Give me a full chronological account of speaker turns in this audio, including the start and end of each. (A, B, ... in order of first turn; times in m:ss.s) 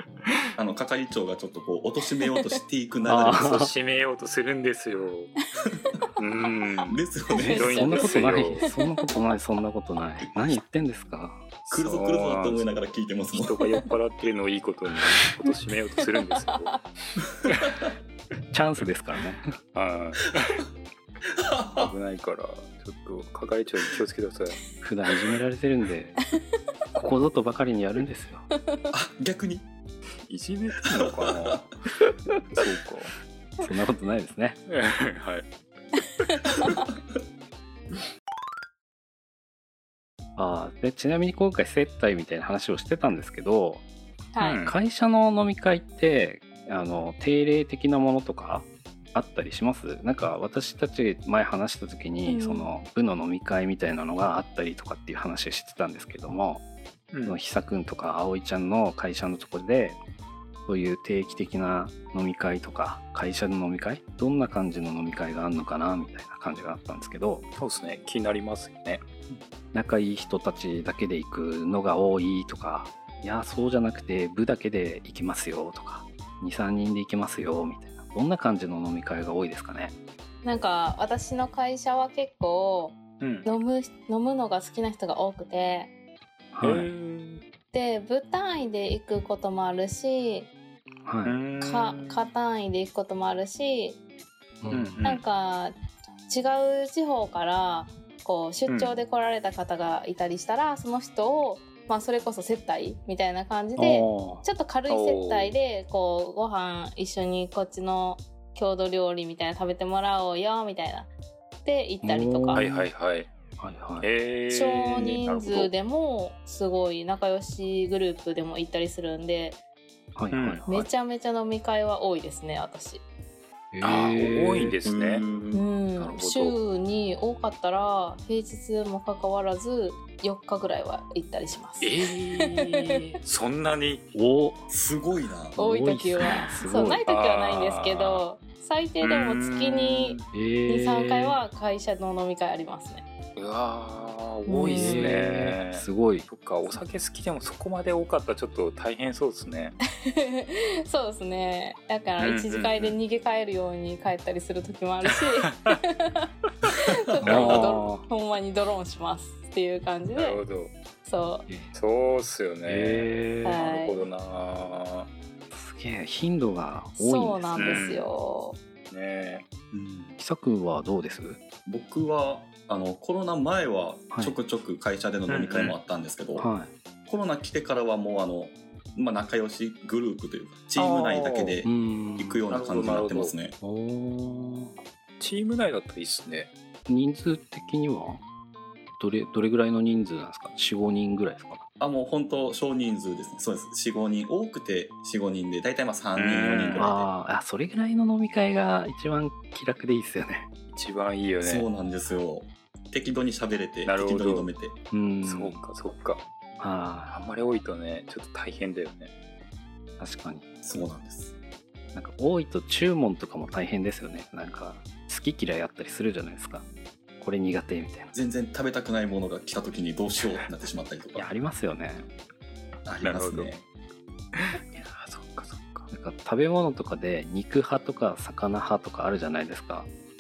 0:00.6-0:03.6 A
0:02.2-0:02.6 B
0:03.0-0:03.7 C
0:03.2-0:05.3 D
0:05.7-0:06.0 A
0:06.2-0:07.0 D
0:06.8-0:08.2 A
0:07.3-0:11.5 C
0:07.4-0:09.0 B
0:07.5-0:08.7 D
0:11.7-0:12.7 D
0:11.7-0:13.7 A
0:13.3-0:16.8 D
0:16.4-0:16.7 B
0:17.4-0:17.9 A
0:18.5-0:19.5 C
0:19.7-0:20.6 D
0:21.4-0:21.9 A
0:21.8-0:24.6 D
0:24.8-0:26.2 C
0:27.0-0:28.5 C
0:28.9-0:29.7 A
0:30.3-0:31.7 D
0:30.9-0:31.6 A
0:32.4-0:33.1 D
0:33.6-0:34.6 C
0:34.7-0:35.5 D
0:36.4-0:36.9 B
0:40.4-0:43.8 C
0:44.3-0:44.6 B
0:44.4-0:44.8 D
0:44.6-0:56.6 C
0:52.3-0:52.7 B
0:57.1-0:57.4 D
0:57.2-1:00.0 C
1:00.7-1:07.4 C
1:07.6-1:09.0 D
1:09.7-1:19.9 C
1:20.4-1:25.9 B
1:23.2-1:23.5 D
1:26.5-1:26.9 C
1:26.6-1:27.4 D
1:27.7-1:30.5 B
1:31.1-1:31.4 C
1:31.2-1:32.3 D
1:31.6-1:34.0 B
1:34.6-1:35.0 C
1:34.7-1:35.2 D
1:35.0-1:35.8 B
1:36.3-1:51.1 B
1:38.7-1:39.0 D
1:43.8-1:44.4 C
1:44.9-1:45.6 D
1:51.6-1:52.6 B
1:52.0-1:52.9 C
1:52.5-1:53.3 D
1:53.6-1:54.1 C
1:54.0-1:55.7 D
1:54.5-1:59.6 B
2:00.2-2:00.9 C
2:00.3-2:00.6 D
2:00.7-2:03.0 B
2:03.7-2:04.8 C
2:03.8-2:05.2 D
2:04.8-2:05.6 A
2:05.5-2:13.0 B
2:06.0-2:06.6 D
2:11.8-2:14.1 D
2:14.1-2:14.7 C
2:14.7-2:15.6 A
2:15.6-2:17.0 C
2:15.6-2:23.0 B
2:17.1-2:18.2 D
2:19.0-2:20.3 D
2:20.3-2:21.4 C
2:23.4-2:29.8 D
2:24.5-2:25.2 B
2:24.6-2:26.3 C
2:30.0-2:40.4 B
2:32.2-2:33.0 D
2:36.7-2:37.4 A
2:37.2-2:37.7 D
2:37.3-2:38.0 C
2:40.2-2:40.7 D
2:41.0-2:41.5 B
2:41.5-2:41.7 C
2:41.7-2:45.1 D
2:42.6-2:43.6 C
2:43.4-2:44.0 B
2:45.5-2:47.9 C
2:47.0-2:48.6 B
2:47.6-2:48.1 D
2:48.9-2:49.4 D
2:49.7-2:50.2 A
2:50.2-2:51.4 C
2:51.7-2:56.5 A
2:54.1-2:54.4 C
2:55.3-2:55.8 D
2:56.4-2:56.7 C
2:57.1-3:03.6 A
3:00.8-3:01.6 D
3:01.6-3:02.5 C
3:02.5-3:03.4 D
3:03.6-3:04.7 C
3:05.2-3:06.5 D
3:06.9-3:08.2 C
3:09.0-3:11.6 C
3:11.8-3:17.1 A
3:16.2-3:16.9 D
3:16.8-3:20.5 C
3:20.7-3:21.7 D
3:21.4-3:24.8 A
3:23.9-3:24.5 D
3:24.9-3:25.6 C
3:25.2-3:26.2 D
3:26.6-3:27.1 C
3:27.1-3:29.1 D
3:30.0-3:30.5 C
3:30.6-3:31.3 A
3:31.9-3:36.7 C
3:37.2-3:38.1 C
3:38.1-3:41.3 A
3:41.2-3:42.1 C
3:42.9-3:43.6 A
3:43.0-3:43.5 D
3:44.3-3:45.9 D
3:45.9-3:49.9 C